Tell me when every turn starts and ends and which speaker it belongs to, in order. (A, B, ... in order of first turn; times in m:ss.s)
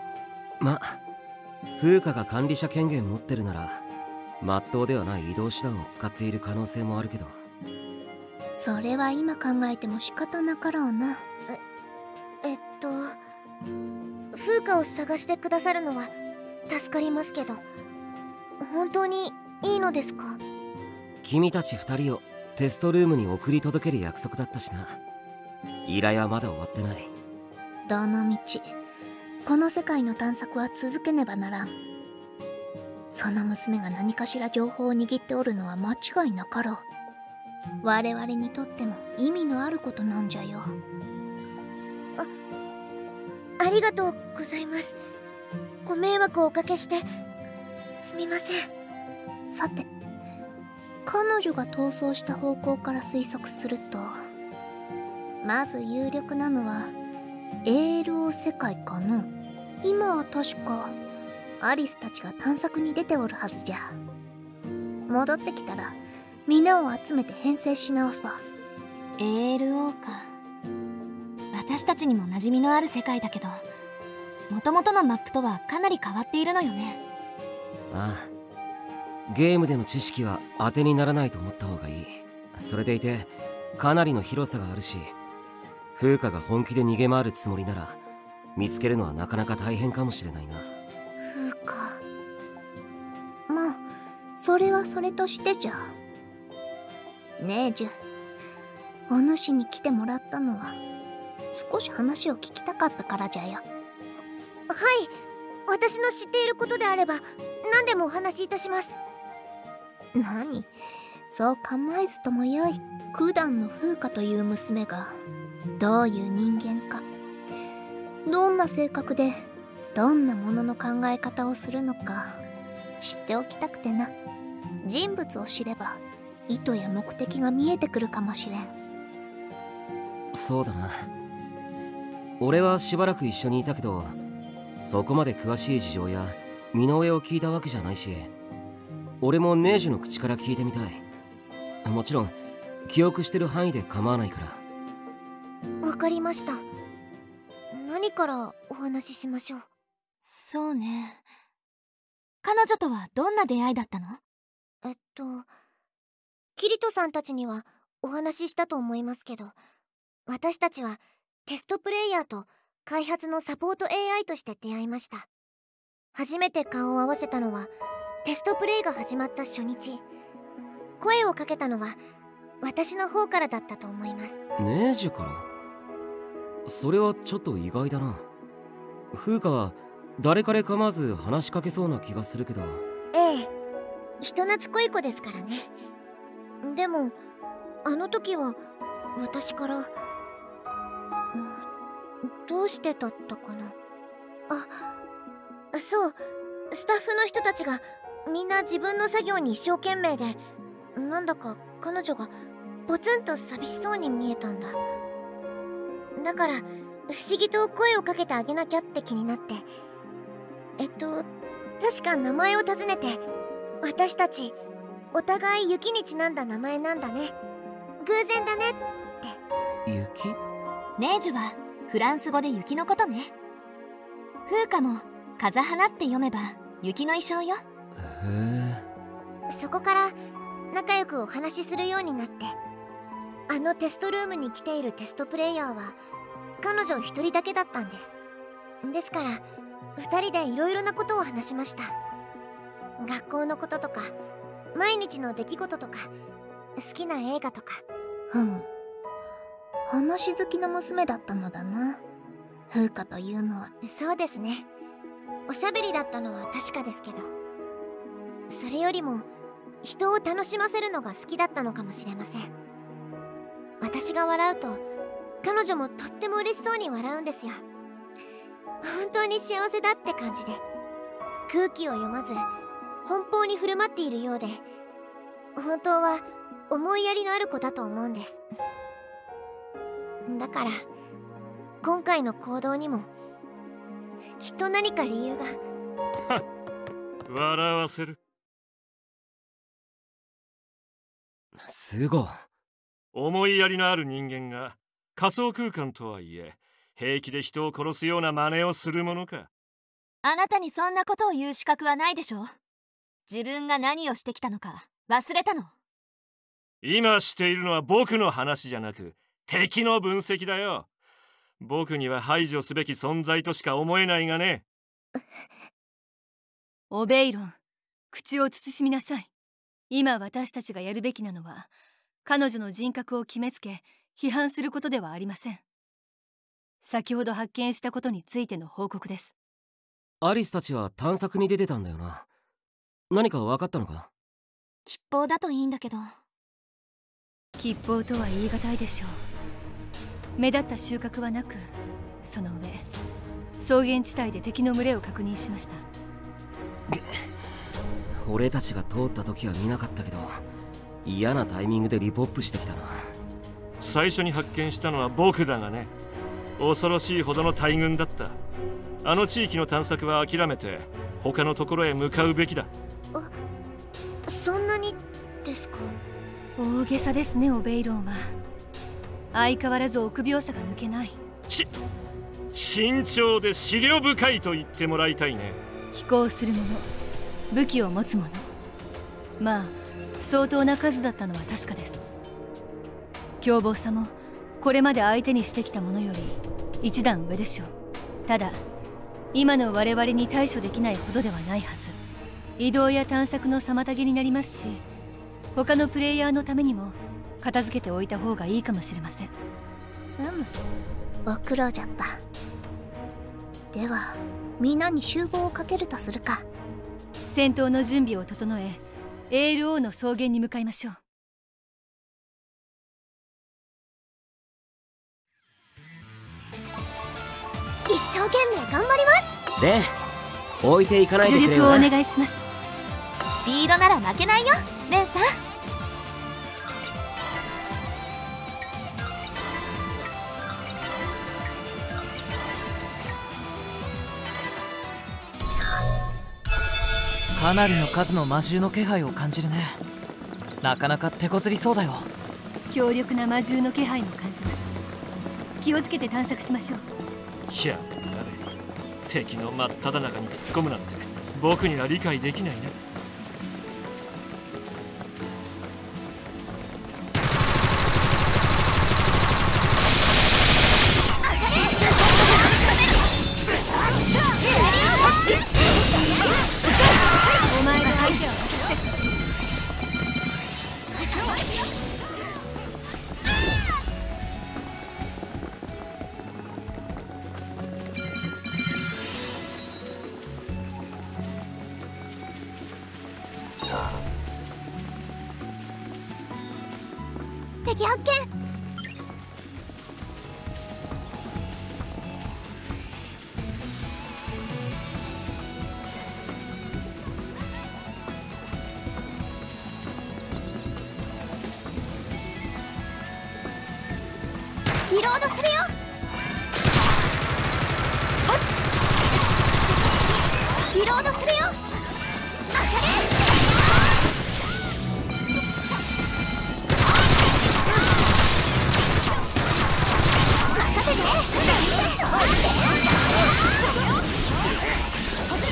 0:00.6-0:01.0 A
0:01.8-0:03.8 A
0:04.4-0:07.4 A
0:08.6-0:11.2 B
0:12.4-0:13.2 C
0:14.3-0:16.2 C
0:16.7-0:17.6 C
0:18.6-0:20.4 C
0:21.2-0:25.0 A
0:25.8-0:27.1 A
0:27.9-0:28.7 B
0:29.5-0:31.8 B
0:33.1-0:36.8 B
0:37.8-0:40.8 B
0:43.6-0:45.0 C
0:45.8-0:47.1 C
0:48.0-0:48.7 C
0:49.5-0:49.9 B
0:51.1-0:54.2 B
0:55.4-0:56.9 B
0:57.6-1:01.0 B
1:01.6-1:04.0 B
1:05.1-1:08.4 B
1:09.2-1:10.3 D
1:11.5-1:13.7 D
1:14.5-1:17.0 D
1:17.9-1:18.3 A
1:19.3-1:25.2 A
1:26.0-1:28.0 A
1:28.6-1:30.7 A
1:31.3-1:32.0 C
1:33.5-1:33.8 B
1:34.4-1:36.0 B
1:37.4-1:38.0 B
1:39.1-1:40.8 B
1:41.5-1:43.6 B
1:44.7-1:45.2 C
1:45.7-1:49.0 C
1:50.2-1:50.7 B
1:51.3-1:55.2 B
1:55.8-1:57.0 B
1:58.3-2:02.4 B
2:03.0-2:04.1 B
2:04.8-2:08.7 B
2:10.3-2:11.1 A
2:12.4-2:14.2 A
2:14.8-2:18.3 A
2:19.2-2:21.0 A
2:21.8-2:24.6 A
2:25.8-2:26.7 C
2:27.7-2:29.7 C
2:30.2-2:31.3 D
2:32.4-2:34.2 D
2:34.8-2:35.5 C
2:36.6-2:39.6 C
2:40.3-2:45.3 C
2:46.2-2:47.7 C
2:48.2-2:50.0 C
2:51.0-2:52.0 C
2:52.6-2:54.4 C
2:54.6-2:55.5 A
2:56.7-2:58.3 A
2:59.1-3:02.8 A
3:03.1-3:03.5 C
3:04.2-3:05.7 C
3:06.6-3:07.2 C
3:07.8-3:08.6 C
3:09.2-3:10.0 C
3:11.3-3:11.6 C
3:12.3-3:13.8 C
3:14.5-3:14.8 C
3:15.7-3:16.2 C
3:16.7-3:20.4 C
3:21.0-3:22.3 C
3:22.9-3:24.8 C
3:26.2-3:29.7 C
3:30.8-3:31.3 C
3:31.8-3:33.2 C
3:33.8-3:34.6 C
3:35.1-3:37.4 C
3:38.0-3:39.4 C
3:39.9-3:40.4 A
3:41.0-3:43.3 D
3:44.5-3:47.6 D
3:48.0-3:48.8 A
3:49.5-3:50.2 C
3:50.7-3:52.6 C
3:53.5-3:56.0 C
3:56.6-3:58.1 C
3:58.8-3:59.4 C
4:00.0-4:02.0 C
4:03.0-4:04.2 C
4:04.7-4:06.1 C
4:06.8-4:07.8 C
4:08.3-4:08.7 B
4:09.9-4:12.0 B
4:12.7-4:13.7 B
4:13.8-4:14.7 C
4:15.5-4:17.3 C
4:18.5-4:19.3 C
4:19.8-4:22.5 C
4:23.8-4:24.8 C
4:25.4-4:27.6 C
4:28.8-4:30.6 C
4:31.5-4:32.5 C
4:33.0-4:34.6 C
4:35.6-4:38.4 C
4:40.3-4:40.9 C
4:41.8-4:43.1 C
4:44.4-4:45.6 C
4:47.3-4:48.2 E
4:51.6-4:52.4 A
4:53.1-4:59.5 E
5:00.2-5:02.6 D
5:03.3-5:05.7 D
5:06.8-5:10.9 E
5:11.6-5:14.6 E
5:16.9-5:17.6 F
5:18.1-5:19.3 F
5:19.9-5:21.7 F
5:22.2-5:25.6 F
5:26.8-5:29.3 F
5:30.2-5:32.3 A
5:33.1-5:34.1 A
5:34.9-5:36.1 D
5:37.6-5:39.2 F
5:40.4-5:41.6 F
5:42.2-5:42.9 F
5:43.6-5:45.8 F
5:46.9-5:47.3 A
5:48.2-5:50.4 A
5:51.0-5:53.0 A
5:53.8-5:55.9 E
5:56.6-5:58.4 E
5:59.0-6:02.7 E
6:04.3-6:06.0 C
6:06.6-6:08.3 F
6:09.3-6:11.2 F
6:12.5-6:15.6 E
6:15.9-6:16.9 F
6:17.5-6:18.5 F
6:19.4-6:22.0 F
6:23.4-6:27.7 F
6:28.3-6:28.6 F
6:29.3-6:32.0 F
6:32.6-6:34.8 F
6:35.6-6:39.3 F
6:40.2-6:40.5 B
6:41.3-6:42.2 B
6:43.7-6:46.5 B
6:47.3-6:51.0 F
6:57.9-6:59.4 C
6:59.6-6:59.9 A
7:00.6-7:01.9 A
7:01.2-7:02.4 F
7:03.4-7:05.4 D
7:17.4-7:19.8 G
7:20.6-7:22.1 G
7:22.7-7:24.7 F
7:25.6-7:26.8 F
7:27.5-7:28.5 E
7:29.1-7:32.8 E
7:44.5-7:45.1 C
7:47.5-7:48.8 F
8:07.7-8:08.3 C
8:24.9-8:25.8 C
8:30.7-8:31.6 C
8:32.5-8:33.0 C
8:40.5-8:42.4 C